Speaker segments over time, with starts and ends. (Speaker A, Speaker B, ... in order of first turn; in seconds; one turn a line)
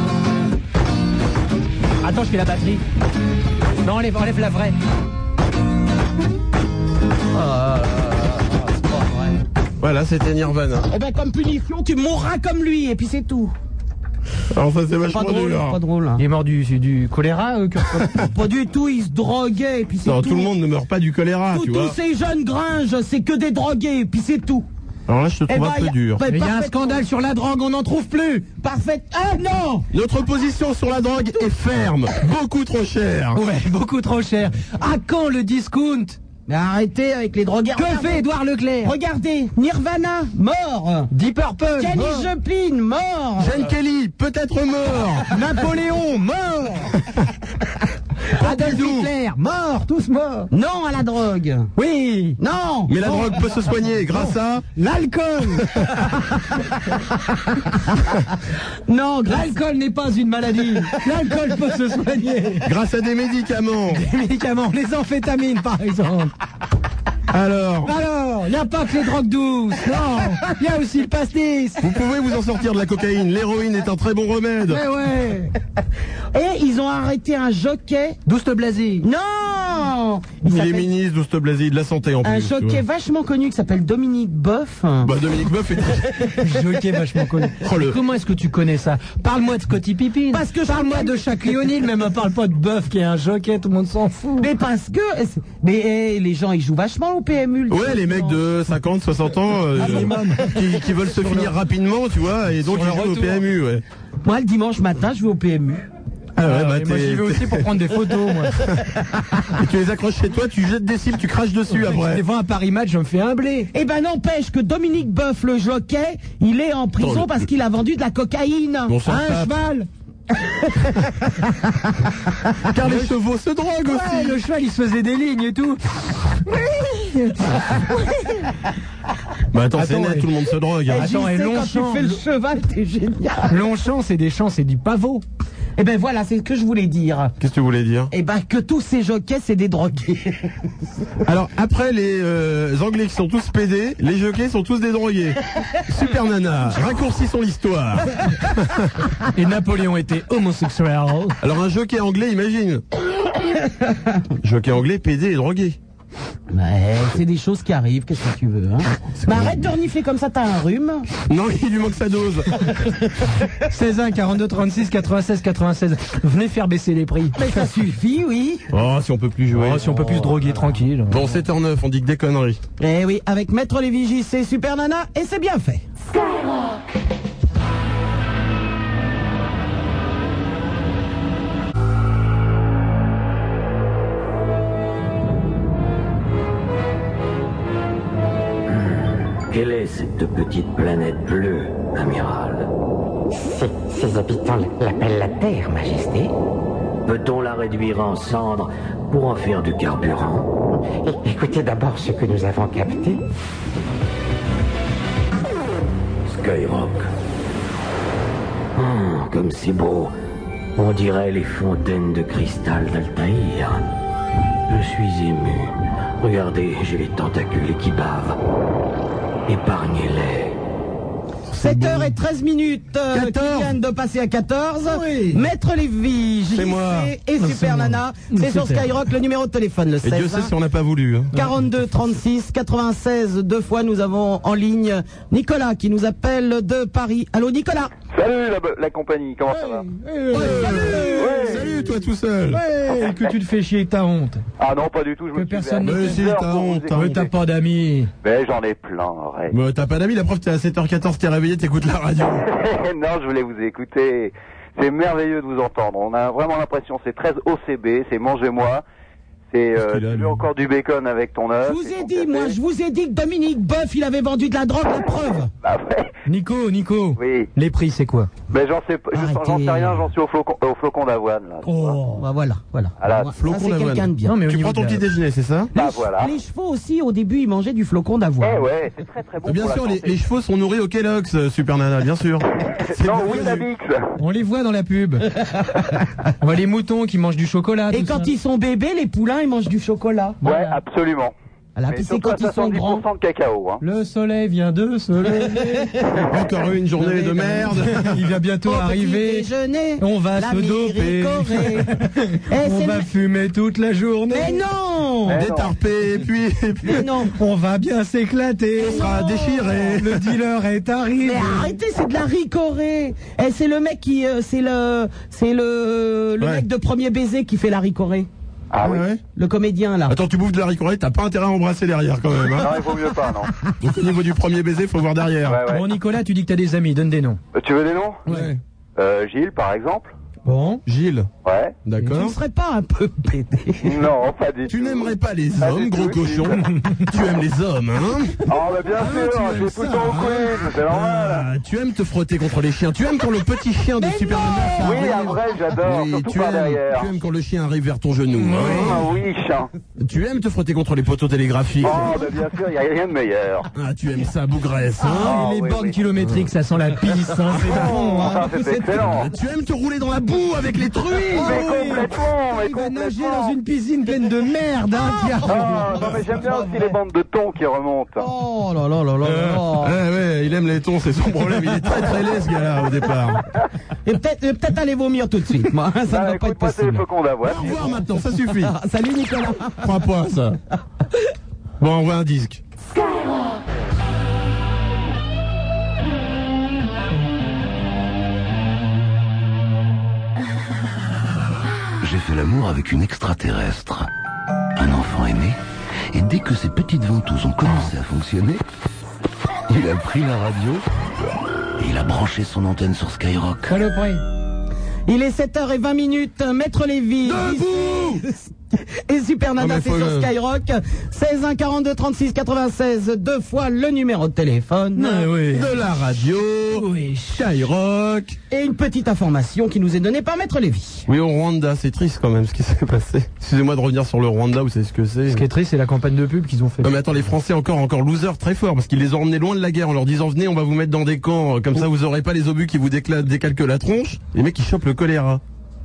Speaker A: 2.0-2.8
Speaker A: 3.8-4.8
Speaker B: 7.3-9.3
Speaker C: 9.8-10.9
Speaker B: 10.9-13.5
Speaker C: 14.5-15.8
Speaker B: 15.1-16.2
Speaker A: 16.2-18.2
Speaker C: 18.0-18.2
Speaker B: 18.2-20.5
Speaker C: 20.0-21.9
Speaker B: 21.5-24.7
Speaker C: 25.1-26.2
Speaker B: 25.5-27.0
Speaker A: 26.2-28.5
Speaker B: 28.6-29.9
Speaker C: 29.9-33.4
Speaker A: 33.3-36.2
Speaker B: 36.5-38.2
Speaker A: 37.7-38.9
Speaker B: 38.8-41.1
Speaker A: 41.1-42.3
Speaker B: 41.8-43.5
Speaker C: 43.4-45.2
Speaker A: 45.3-47.0
Speaker A: 48.3-50.5
Speaker C: 48.4-49.1
Speaker B: 50.5-51.7
Speaker A: 51.8-52.4
Speaker B: 52.4-53.4
Speaker C: 52.9-54.6
Speaker A: 54.7-56.1
Speaker B: 58.9-59.6
Speaker A: 59.3-62.7
Speaker C: 62.6-64.0
Speaker A: 63.9-66.3
Speaker C: 67.3-67.9
Speaker A: 67.8-71.8
Speaker C: 71.8-74.8
Speaker A: 74.7-75.5
Speaker B: 76.3-78.2
Speaker A: 78.2-79.0
Speaker B: 79.0-80.9
Speaker C: 80.4-82.8
Speaker B: 82.2-85.1
Speaker C: 85.0-86.2
Speaker A: 86.4-94.4
Speaker C: 87.6-88.0
Speaker B: 90.3-91.2
Speaker B: 94.4-98.4
Speaker C: 97.7-103.8
Speaker A: 99.8-101.5
Speaker A: 102.6-103.5
Speaker B: 104.2-105.8
Speaker C: 106.3-107.7
Speaker A: 106.4-108.7
Speaker C: 109.5-112.2
Speaker A: 111.7-113.7
Speaker B: 113.7-119.0
Speaker C: 117.0-117.4
Speaker C: 118.9-119.5
Speaker A: 119.0-119.9
Speaker C: 122.7-124.4
Speaker A: 122.7-123.1
Speaker A: 123.8-128.2
Speaker C: 129.5-131.1
Speaker A: 129.7-130.3
Speaker B: 130.9-133.6
Speaker A: 130.9-132.2
Speaker A: 133.5-135.2
Speaker B: 135.8-137.3
Speaker C: 137.4-138.1
Speaker B: 138.1-140.6
Speaker C: 141.2-149.0
Speaker A: 149.3-151.4
Speaker C: 151.4-152.8
Speaker C: 154.4-155.8
Speaker B: 156.5-161.1
Speaker C: 159.2-159.7
Speaker C: 161.2-162.7
Speaker A: 163.6-167.6
Speaker B: 167.3-168.7
Speaker C: 168.7-170.2
Speaker A: 169.5-171.4
Speaker C: 171.1-172.6
Speaker B: 172.8-175.9
Speaker D: 188.7-192.7
Speaker E: 193.3-196.3
Speaker D: 197.0-200.5
Speaker E: 201.0-203.2
Speaker D: 206.2-207.1
Speaker D: 208.7-210.1
Speaker D: 210.8-213.8
Speaker D: 214.7-218.4
Speaker D: 219.5-220.6
Speaker C: 221.5-222.2
Speaker B: 221.6-230.5
Speaker C: 223.1-223.7
Speaker A: 224.8-225.4
Speaker C: 226.5-227.1
Speaker A: 227.4-228.9
Speaker C: 230.0-231.4
Speaker B: 231.3-237.9
Speaker F: 238.1-239.9
Speaker A: 239.5-241.8
Speaker C: 240.3-242.6
Speaker B: 240.3-241.0
Speaker F: 241.1-241.7
Speaker A: 242.5-244.4
Speaker F: 244.6-247.2
Speaker A: 245.3-246.2
Speaker C: 245.8-247.3
Speaker A: 246.9-248.1
Speaker F: 248.2-249.5
Speaker C: 249.5-252.5
Speaker F: 252.2-258.8
Speaker F: 259.5-262.6
Speaker C: 259.8-260.4
Speaker B: 261.6-265.5
Speaker F: 265.6-266.1
Speaker A: 266.3-268.3
Speaker F: 267.2-267.5
Speaker F: 268.5-271.9
Speaker B: 269.1-270.1
Speaker A: 271.6-272.2
Speaker B: 272.1-274.4
Speaker F: 273.0-273.3
Speaker C: 273.3-275.7
Speaker A: 274.2-275.0
Speaker F: 275.7-276.3
Speaker B: 275.7-278.7
Speaker F: 278.4-280.2
Speaker C: 279.4-282.4
Speaker F: 282.8-284.0
Speaker C: 282.9-283.6
Speaker A: 284.2-285.3
Speaker A: 286.4-288.3
Speaker B: 287.9-290.4
Speaker A: 290.4-290.8
Speaker F: 290.4-291.3
Speaker B: 291.8-293.0
Speaker F: 291.9-293.8
Speaker A: 293.8-295.9
Speaker C: 296.3-298.2
Speaker B: 297.0-297.8
Speaker A: 297.8-299.5
Speaker B: 298.6-301.9
Speaker A: 300.0-304.6
Speaker B: 302.5-303.0
Speaker B: 304.3-305.5
Speaker F: 305.3-305.7
Speaker C: 305.3-307.1
Speaker B: 306.8-307.3
Speaker A: 307.3-311.7
Speaker C: 308.8-310.3
Speaker B: 308.8-309.9
Speaker B: 311.2-318.3
Speaker C: 316.4-316.6
Speaker F: 318.7-319.1
Speaker C: 318.8-319.2
Speaker B: 319.4-320.1
Speaker C: 320.1-322.8
Speaker F: 322.6-323.5
Speaker C: 323.8-325.6
Speaker F: 325.4-325.9
Speaker A: 325.7-327.4
Speaker F: 327.5-328.2
Speaker C: 328.3-328.6
Speaker F: 329.0-330.1
Speaker A: 330.4-330.8
Speaker C: 330.9-331.3
Speaker F: 331.4-331.8
Speaker C: 331.8-332.4
Speaker B: 332.1-334.0
Speaker F: 333.8-336.6
Speaker C: 334.7-338.4
Speaker A: 336.7-337.0
Speaker F: 338.5-341.5
Speaker A: 338.9-340.3
Speaker C: 339.9-349.1
Speaker A: 344.0-345.0
Speaker F: 344.8-347.1
Speaker A: 348.4-349.1
Speaker F: 348.6-349.7
Speaker C: 350.0-352.2
Speaker F: 351.8-353.7
Speaker C: 353.7-355.4
Speaker A: 355.0-359.0
Speaker F: 355.0-356.0
Speaker F: 357.6-359.3
Speaker B: 357.7-358.5
Speaker C: 359.0-361.7
Speaker A: 361.3-366.0
Speaker F: 361.3-363.6
Speaker B: 365.4-366.9
Speaker F: 365.4-368.3
Speaker B: 368.2-370.0
Speaker A: 369.2-369.5
Speaker C: 369.3-373.4
Speaker B: 374.0-377.0
Speaker F: 376.1-378.0
Speaker C: 377.4-378.7
Speaker B: 378.5-379.9
Speaker C: 379.8-380.6
Speaker C: 381.8-382.6
Speaker G: 392.0-394.1
Speaker G: 394.8-395.6
Speaker G: 396.1-398.6
Speaker G: 399.7-400.8
Speaker G: 401.8-403.8
Speaker A: 403.7-404.2
Speaker B: 405.1-415.3
Speaker C: 407.2-408.2
Speaker C: 409.6-410.3
Speaker A: 414.9-415.7
Speaker C: 415.5-418.4
Speaker A: 416.7-417.4
Speaker B: 418.5-421.1
Speaker C: 421.1-425.4
Speaker A: 425.3-427.0
Speaker C: 426.8-435.4